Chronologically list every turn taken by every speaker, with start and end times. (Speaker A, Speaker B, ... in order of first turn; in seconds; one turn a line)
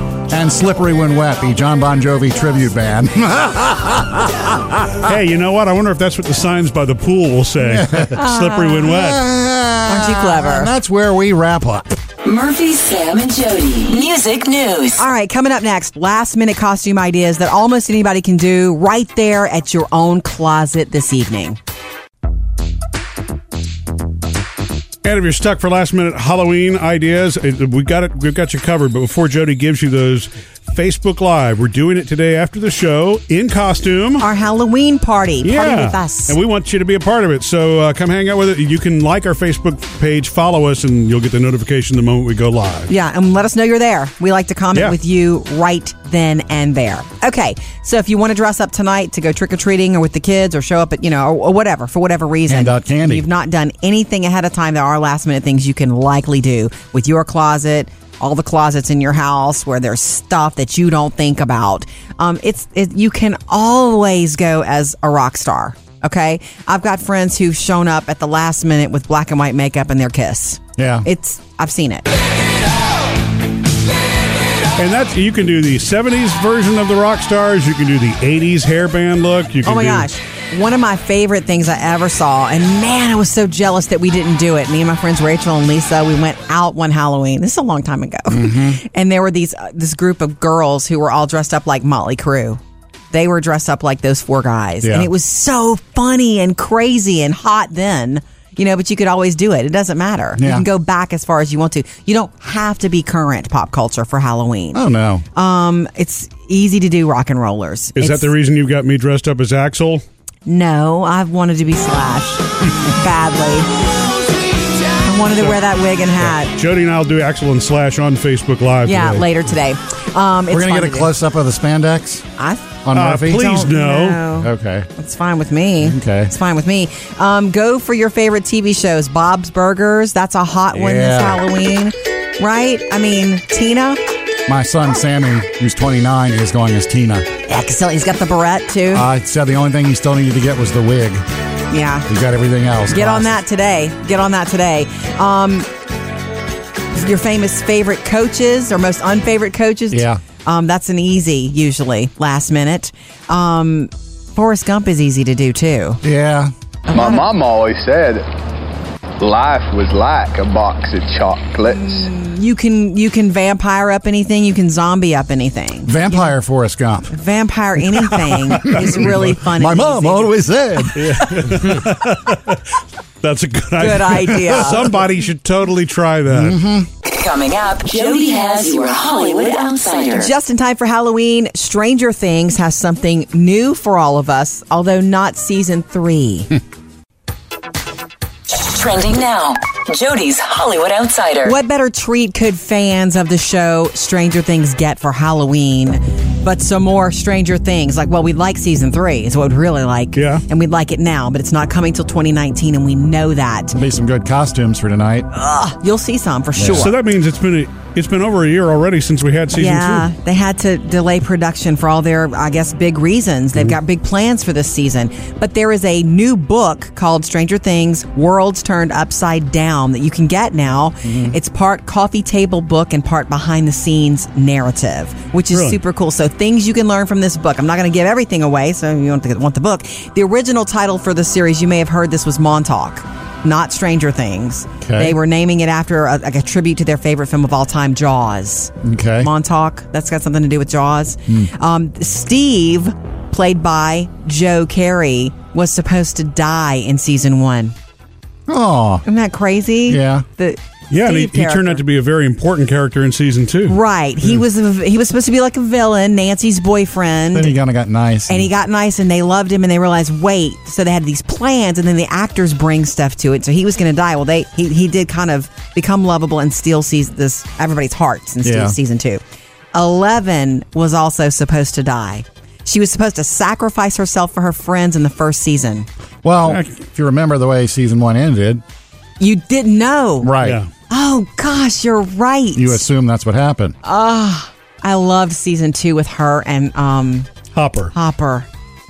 Speaker A: 0.3-5.0
Speaker B: 5.0-9.2
Speaker A: 7.6-8.2
Speaker C: 8.2-9.0
Speaker A: 8.8-11.9
Speaker C: 9.9-10.7
Speaker D: 12.2-15.0
Speaker C: 15.0-21.6
Speaker B: 25.1-34.3
Speaker C: 34.2-36.4
Speaker B: 35.4-42.9
Speaker C: 42.9-72.0
Speaker A: 52.5-53.3
Speaker A: 70.8-71.1
Speaker B: 74.8-80.1
Speaker C: 79.6-92.6
Speaker A: 88.3-88.8
Speaker C: 93.1-104.8
Speaker A: 94.8-95.1
Speaker A: 100.4-100.7
Speaker A: 104.7-105.2
Speaker C: 105.3-108.3
Speaker B: 108.0-110.0
Speaker C: 110.5-113.7
Speaker C: 115.0-116.5
Speaker B: 116.2-119.3
Speaker C: 118.8-121.1
Speaker A: 120.5-122.3
Speaker C: 122.4-122.8
Speaker A: 122.8-123.6
Speaker B: 123.0-124.2
Speaker C: 123.3-134.0
Speaker A: 124.4-124.9
Speaker A: 125.8-126.3
Speaker A: 130.7-131.4
Speaker A: 134.5-137.3
Speaker C: 137.5-139.1
Speaker A: 138.9-141.2
Speaker C: 141.7-142.1
Speaker A: 142.1-143.4
Speaker C: 142.9-145.7
Speaker C: 146.9-156.0
Speaker A: 149.9-150.2
Speaker A: 156.0-156.5
Speaker C: 156.9-157.3
Speaker E: 156.9-158.2
Speaker E: 159.2-162.1
Speaker C: 161.7-166.3
Speaker A: 165.9-167.1
Speaker C: 167.1-170.3
Speaker A: 168.7-171.7
Speaker B: 170.9-172.6
Speaker B: 173.2-176.6
Speaker C: 173.8-174.9
Speaker A: 176.3-176.9
Speaker D: 177.0-180.3
Speaker C: 180.1-186.5
Speaker D: 188.5-191.6
Speaker C: 191.4-203.8
Speaker B: 200.1-200.4
Speaker A: 203.7-205.3
Speaker C: 205.3-206.9
Speaker A: 206.6-206.9
Speaker B: 206.7-210.1
Speaker C: 209.5-247.8
Speaker A: 221.0-221.3
Speaker B: 225.5-225.8
Speaker A: 234.8-235.2
Speaker A: 238.8-239.3
Speaker A: 248.5-249.0
Speaker C: 249.1-251.8
Speaker A: 249.9-250.3
Speaker B: 250.9-253.8
Speaker C: 253.7-257.6
Speaker A: 257.3-258.5
Speaker C: 258.3-269.2
Speaker A: 268.4-268.8
Speaker C: 269.7-275.9
Speaker A: 276.2-278.6
Speaker B: 276.5-276.8
Speaker C: 279.2-280.3
Speaker A: 280.2-280.6
Speaker B: 280.4-280.7
Speaker C: 280.9-282.8
Speaker A: 282.6-283.8
Speaker C: 283.8-287.3
Speaker B: 287.5-287.9
Speaker C: 287.9-288.5